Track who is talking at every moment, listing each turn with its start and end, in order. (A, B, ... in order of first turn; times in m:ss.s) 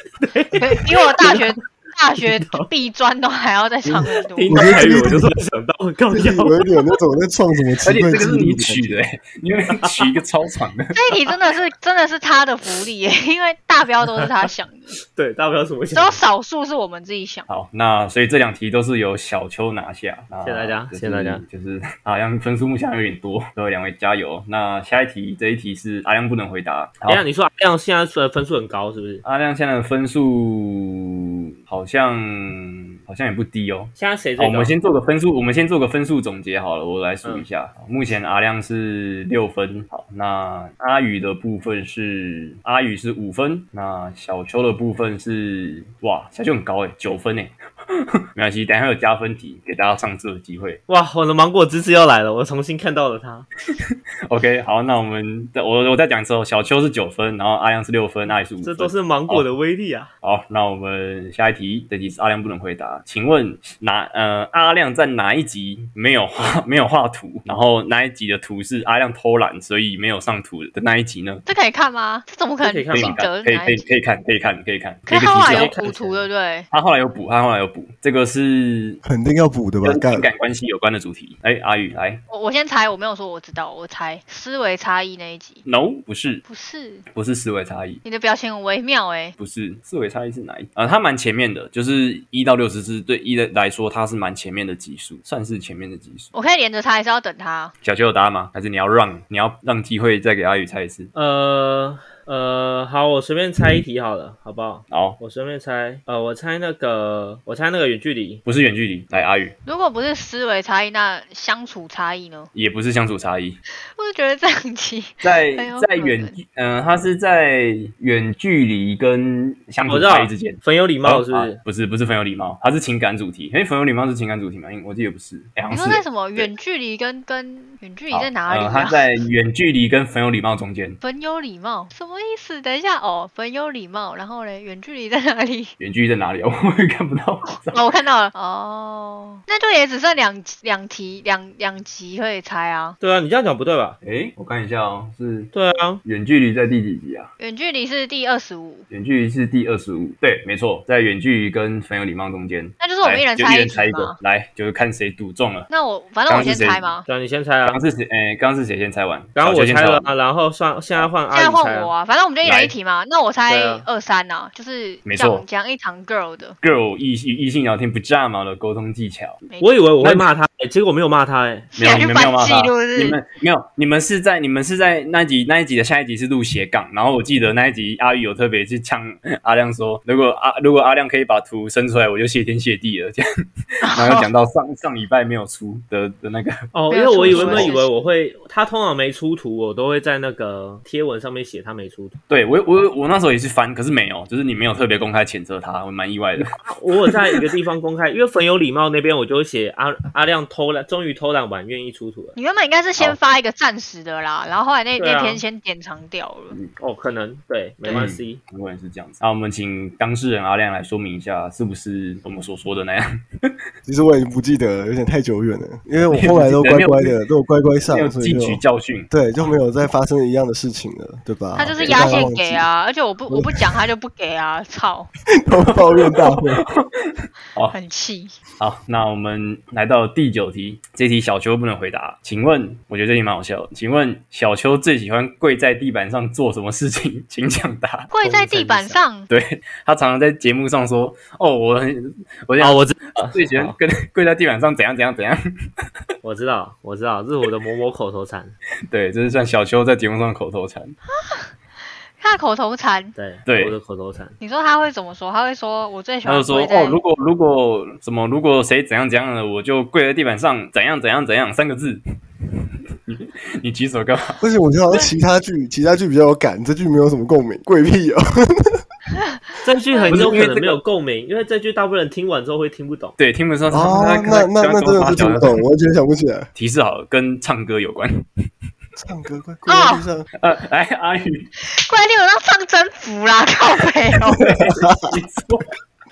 0:00.2-0:01.5 A
0:00.6-0:04.8 B
0:02.3-0:02.7 A
0:03.9-0:06.6 A
0:04.5-0:05.3 C
0:06.1-0:09.0 C
0:07.8-0:11.0 D
0:09.8-0:10.1 A
0:10.9-0:14.9 B
0:15.1-0:16.2 A
0:16.0-0:17.5 B
0:17.5-0:27.2 D
0:20.4-0:21.4 A
0:27.1-0:29.2 A
0:29.2-0:50.8 D
0:34.0-0:34.7 A
0:50.9-0:53.5 A
0:53.7-0:59.5 D
0:58.6-1:00.1 A
1:00.2-1:11.4 D
1:11.5-1:13.9 B
1:12.6-1:13.2 A
1:12.9-1:15.8 D
1:15.1-1:16.7 B
1:15.5-1:16.3 A
1:16.7-1:19.0 D
1:19.0-1:20.3 C
1:19.8-1:22.2 D
1:22.3-1:25.6 B
1:25.6-1:26.4 D
1:26.4-1:27.1 B
1:27.1-1:28.0 D
1:28.0-1:29.4 B
1:29.4-1:36.3 D
1:36.3-1:37.7 B
1:37.8-1:41.1 D
1:41.2-1:48.4 A
1:44.9-1:45.2 D
1:48.4-1:49.6 D
1:49.7-1:52.5 B
1:52.6-1:53.6 D
1:54.0-1:56.4 B
1:55.2-2:06.5 D
1:59.8-2:01.6 A
2:05.7-2:09.0 B
2:08.1-2:11.0 D
2:11.0-2:15.7 B
2:15.8-2:17.9 D
2:17.7-2:23.0 B
2:23.0-2:24.0 A
2:24.0-2:25.5 D
2:25.5-2:26.0 A
2:26.0-2:27.3 D
2:27.4-2:28.9 B
2:28.9-2:35.7 D
2:32.8-2:34.2 B
2:35.7-2:37.1 B
2:36.3-2:36.9 D
2:37.1-2:37.8 A
2:37.6-2:40.1 D
2:39.4-2:41.9 A
2:41.3-2:46.6 B
2:42.4-2:42.8 D
2:43.5-2:43.9 A
2:45.1-2:45.4 D
2:46.6-2:49.4 D
2:49.5-2:49.8 B
2:49.6-2:51.7 A
2:50.0-2:50.3 D
2:51.8-2:53.2 B
2:51.8-3:03.2 D
3:03.8-3:06.6 D
3:03.8-3:04.3 B
3:06.7-3:12.2 A
3:06.9-3:07.9 B
3:07.2-3:07.7 D
3:12.3-3:16.5 D
3:16.4-3:22.4 A
3:22.4-3:26.6 B
3:25.0-3:25.4 A
3:26.8-3:28.4 A
3:27.8-3:28.1 B
3:27.9-3:33.5 D
3:33.9-3:42.7 C
3:36.1-3:37.2 D
3:37.9-3:39.1 D
3:41.6-3:45.1 B
3:41.7-3:42.3 D
3:43.3-3:43.8 C
3:45.4-3:46.6 C
3:45.7-3:47.8 D
3:47.7-3:48.4 B
3:48.6-3:58.1 D
3:58.1-3:59.3 B
3:58.2-3:59.0 A
3:59.3-4:05.5 D
4:02.6-4:03.8 A
4:06.2-4:08.6 A
4:08.9-4:11.0 D
4:11.2-4:11.5 B
4:12.2-4:13.2 B
4:13.2-4:14.4 A
4:13.5-4:13.8 D
4:14.4-4:17.0 B
4:16.3-4:22.0 D
4:23.1-4:24.4 D
4:24.4-4:28.8 C
4:29.6-4:33.2 A
4:29.9-4:30.4 B
4:30.1-4:30.8 D
4:33.2-4:35.6 D
4:33.7-4:36.5 C
4:36.6-4:38.2 D
4:39.0-4:40.3 C
4:39.7-4:40.0 B
4:40.4-4:41.5 D
4:41.6-4:44.6 B
4:44.2-4:45.1 C
4:44.4-4:45.7 D